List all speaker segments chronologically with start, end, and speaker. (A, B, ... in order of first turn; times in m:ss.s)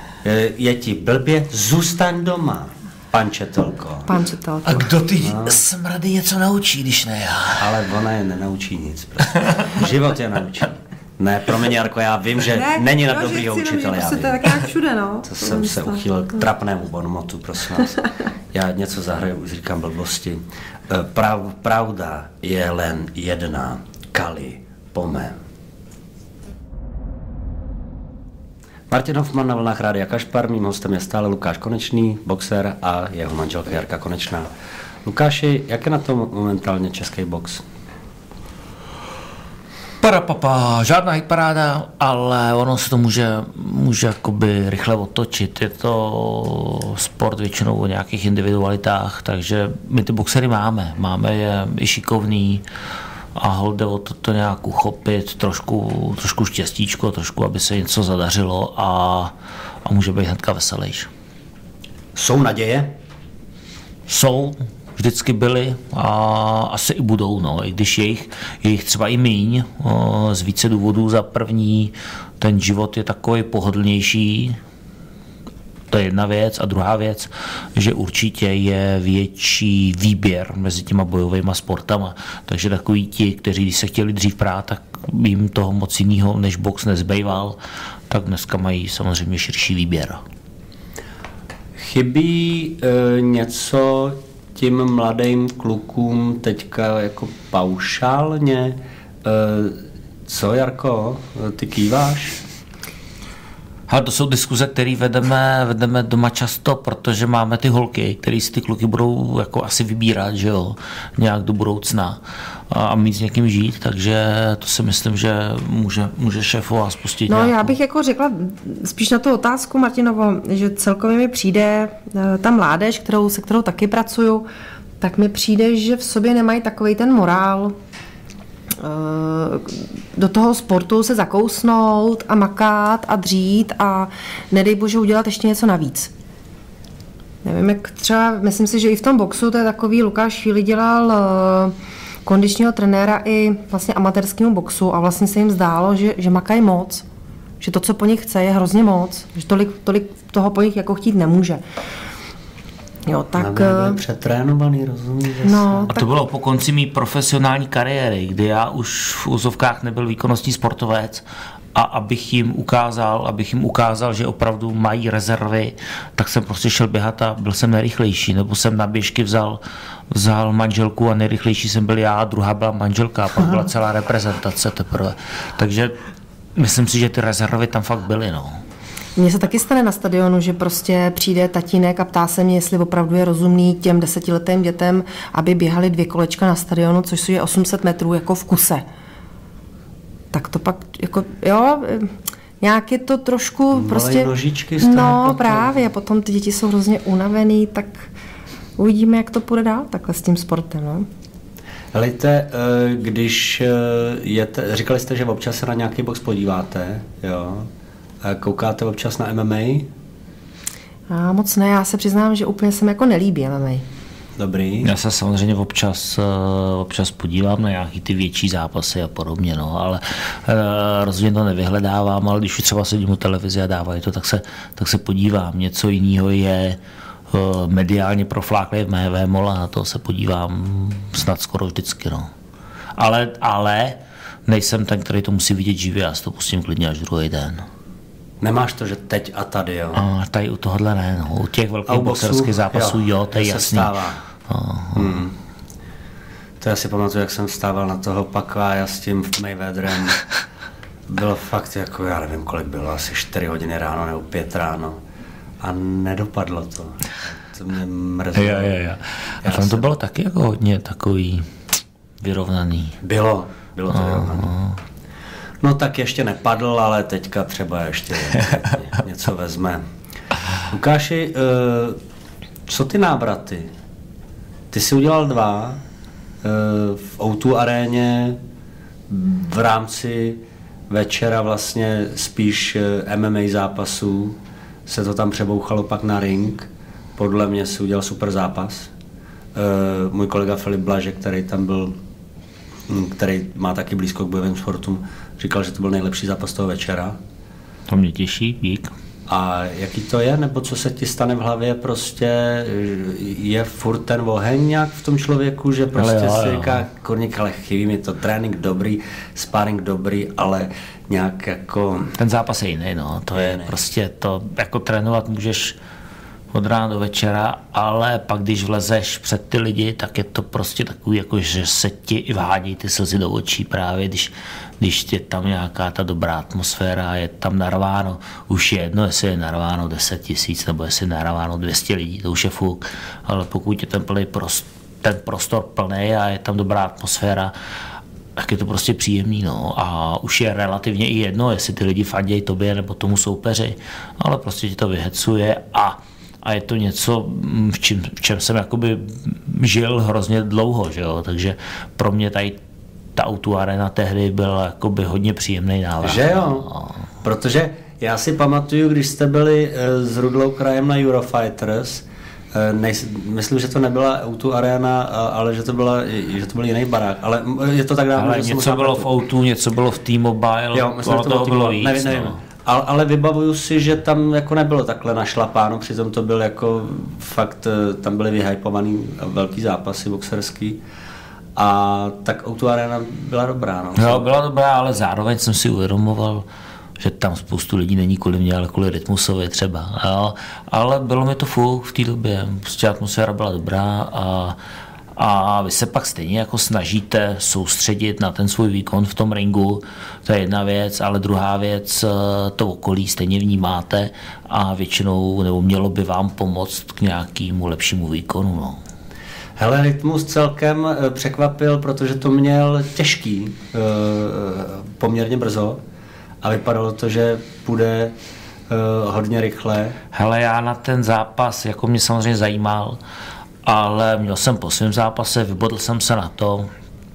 0:00.2-0:04.1 A
0:04.1-0:04.9 B
0:04.7-0:07.8 C
0:05.2-0:05.6 A
0:07.6-0:14.5 A
0:12.5-0:16.0 B
0:15.2-0:18.0 A
0:18.5-0:25.4 A
0:28.9-0:34.5 A
0:35.0-0:37.6 A
0:40.0-0:52.6 C
0:53.4-0:59.3 C
0:59.8-1:01.1 C
1:02.1-1:03.0 A
1:04.1-1:14.6 C
1:15.9-1:27.6 C
1:28.1-1:30.2 C
1:31.8-1:42.4 A
1:43.9-1:57.7 C
1:57.3-2:04.5 B
2:05.0-2:07.7 B
2:08.8-2:16.1 B
2:17.4-2:27.0 B
2:27.6-2:31.6 B
2:33.1-2:34.0 B
2:33.3-2:35.9 A
2:35.4-2:36.0 B
2:35.9-2:56.0 C
2:56.6-2:58.6 C
2:59.2-3:08.8 B
3:10.3-3:18.1 B
3:13.7-3:15.7 A
3:18.8-3:21.0 B
3:21.9-3:27.7 A
3:28.2-3:29.9 A
3:31.1-3:33.8 B
3:34.4-3:34.9 A
3:34.8-3:46.8 C
3:47.3-3:52.3 C
3:53.0-3:57.6 C
3:58.4-4:00.0 A
3:59.9-4:03.9 C
4:01.9-4:04.2 A
4:04.5-4:05.2 C
4:04.9-4:05.3 A
4:06.6-4:10.2 A
4:11.1-4:15.0 A
4:15.6-4:18.9 A
4:18.3-4:21.5 C
4:19.4-4:19.9 A
4:22.2-4:23.0 C
4:23.0-4:24.5 A
4:23.9-4:24.8 C
4:25.6-4:29.8 A
4:30.7-4:32.0 A
4:32.6-4:33.7 A
4:34.7-4:35.8 A
4:36.4-4:38.4 A
4:39.1-4:48.9 A
4:49.5-4:52.0 A
4:52.9-4:57.2 A
4:57.9-4:58.9 C
4:59.3-5:12.2 A
5:06.0-5:06.8 C
5:12.2-5:15.8 C
5:13.3-5:13.7 A
5:16.5-5:37.5 C
5:38.4-5:52.6 C
5:53.2-5:56.9 C
5:56.0-5:56.7 A
5:57.2-6:09.1 A
6:08.2-6:12.4 C
6:10.7-6:20.8 A
6:21.6-6:24.3 A
6:24.0-6:26.4 C
6:27.0-6:34.6 C
6:35.2-6:48.8 C
6:49.6-6:55.8 A
6:56.4-6:58.2 A
6:58.7-7:00.0 A
7:00.1-7:03.0 C
7:03.6-7:06.7 C